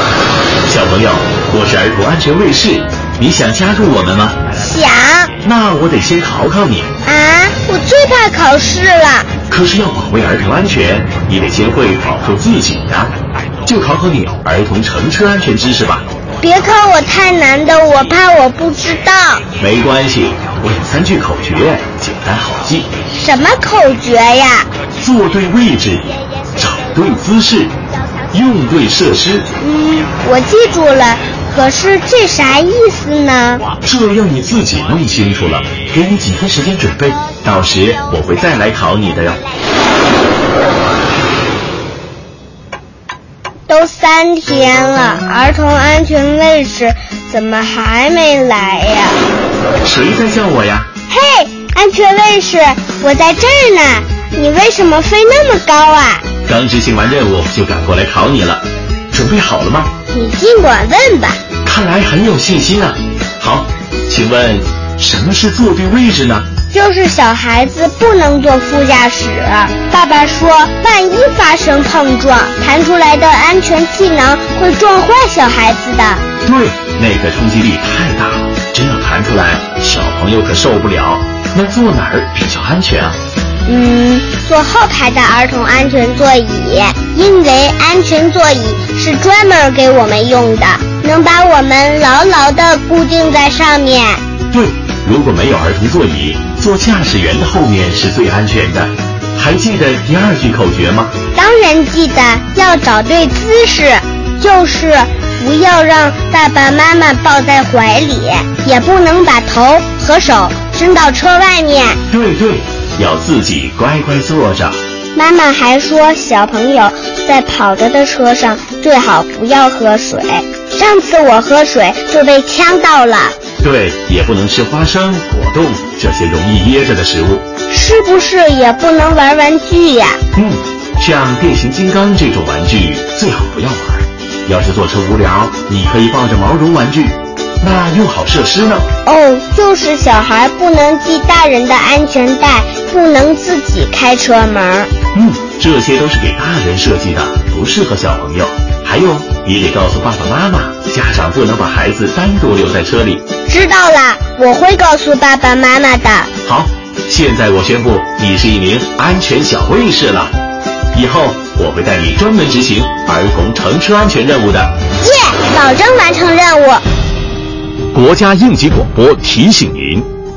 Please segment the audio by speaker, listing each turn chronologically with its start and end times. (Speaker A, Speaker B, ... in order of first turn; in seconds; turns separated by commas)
Speaker A: 0.7-4.5, Speaker B: 4.5-5.3, Speaker A: 5.4-6.9, Speaker B: 7.0-9.3, Speaker A: 9.5-16.1, Speaker B: 16.4-19.4, Speaker A: 19.6-22.9, Speaker B: 23.1-24.7, Speaker A: 25.0-27.8, Speaker A: 28.3-29.5, Speaker B: 29.6-33.6, Speaker A: 33.8-39.5, Speaker B: 43.7-49.2, Speaker A: 49.8-50.9, Speaker B: 51.1-56.3, Speaker A: 56.5-59.9, Speaker B: 60.1-61.4, Speaker A: 61.6-66.5, Speaker B: 66.7-76.2, Speaker A: 76.4-83.2, Speaker B: 83.7-94.2, Speaker A: 94.5-101.1, Speaker B: 101.3-112.0, Speaker A: 112.1-114.8, Speaker B: 115.1-123.3, Speaker A: 123.6-127.4, Speaker B: 127.7-130.2, Speaker A: 130.3-138.9, Speaker B: 139.0-144.9, Speaker A: 145.1-153.2, Speaker B: 153.5-156.3, Speaker A: 156.4-160.3, Speaker A: 160.9-164.7, Speaker B: 165.0-166.8, Speaker A: 167.9-170.1